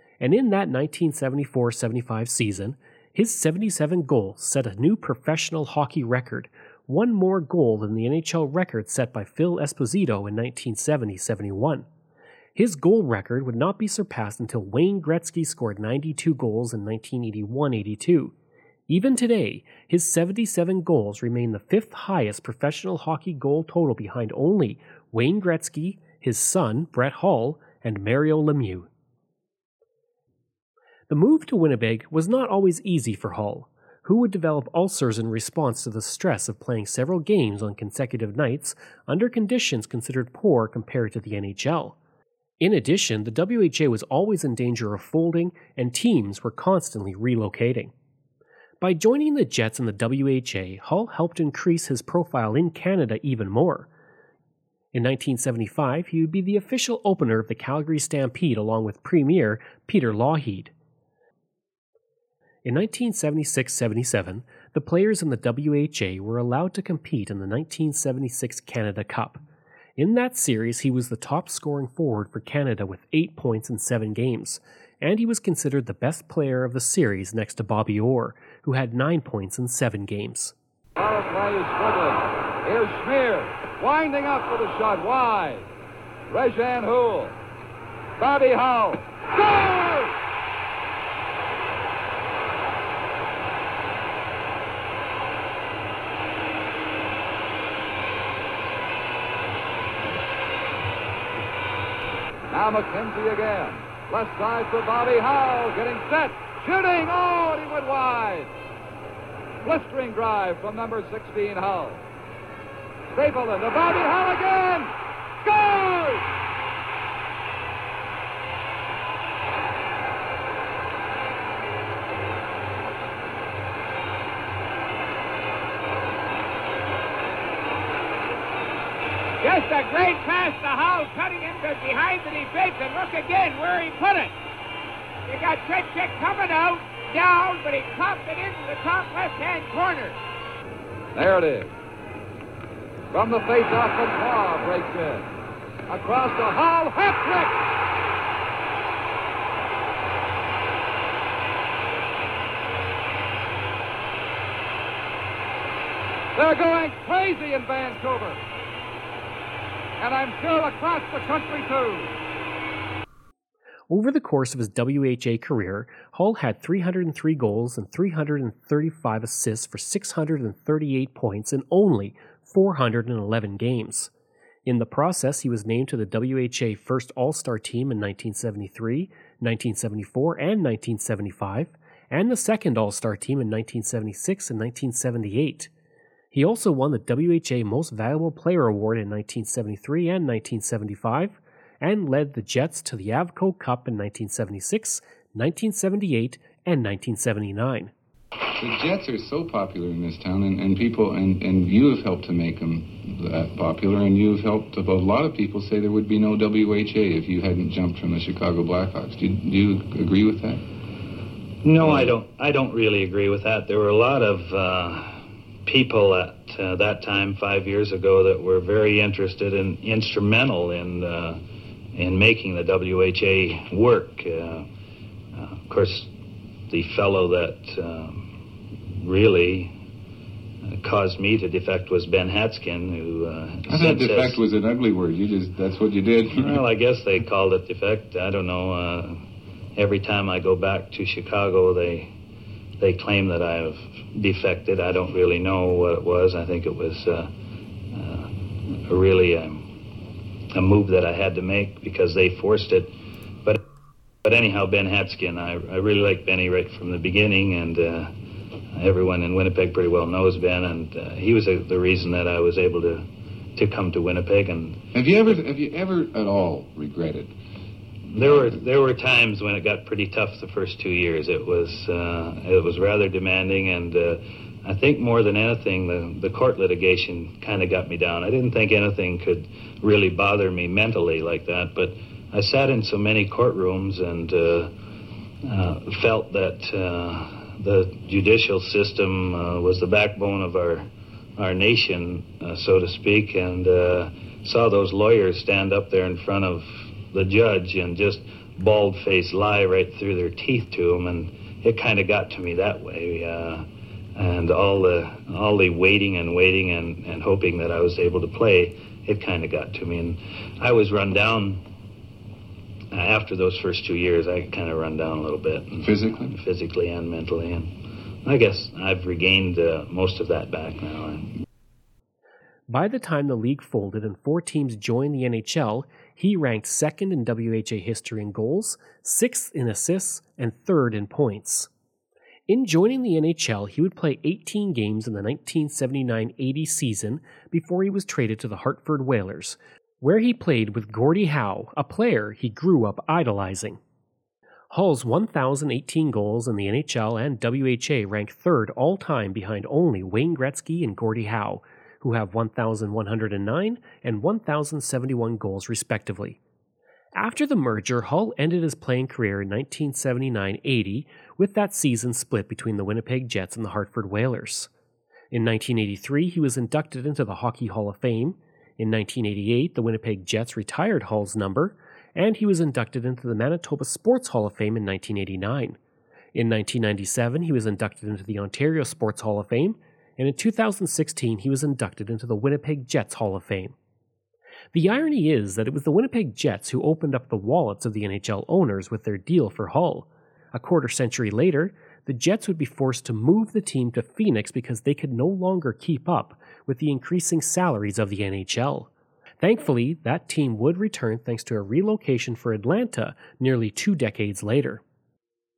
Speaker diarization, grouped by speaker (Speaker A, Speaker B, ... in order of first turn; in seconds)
Speaker A: 0.2-11.9, 12.6-18.3, 18.9-28.9, 31.1-42.0, 42.6-47.9, 48.8-53.9, 54.9-60.7, 62.6-69.4, 70.0-80.5, 163.9-174.1, 174.7-185.7, 186.3-197.9, 322.7-331.7, 332.5-343.8, 344.7-356.4, 357.2-364.7, 365.3-375.8, 376.3-383.7, 384.7-398.9, 399.4-404.8
Speaker B: 81.0-85.7, 86.3-87.4, 88.2-90.1, 102.5-108.5, 109.6-112.0, 113.1-114.9, 115.4-116.2, 141.2-141.7, 143.1-145.3, 145.9-147.6, 156.4-158.4, 160.0-162.1
Speaker C: 129.4-134.3, 135.3-140.2
Speaker D: 198.6-210.6, 211.8-212.1, 233.7-236.6, 264.9-267.3, 268.2-268.6, 315.8-316.4
Speaker E: 211.6-221.4, 221.9-224.7, 225.3-226.1, 226.7-228.3, 228.9-229.7, 230.7-234.4, 236.4-239.2, 239.8-242.1, 242.8-247.3, 247.9-249.7, 250.5-252.9, 254.2-258.1, 258.7-263.1, 263.6-264.8, 268.1-284.7, 285.4-290.9, 291.4-311.6, 312.9-317.7, 318.2-321.3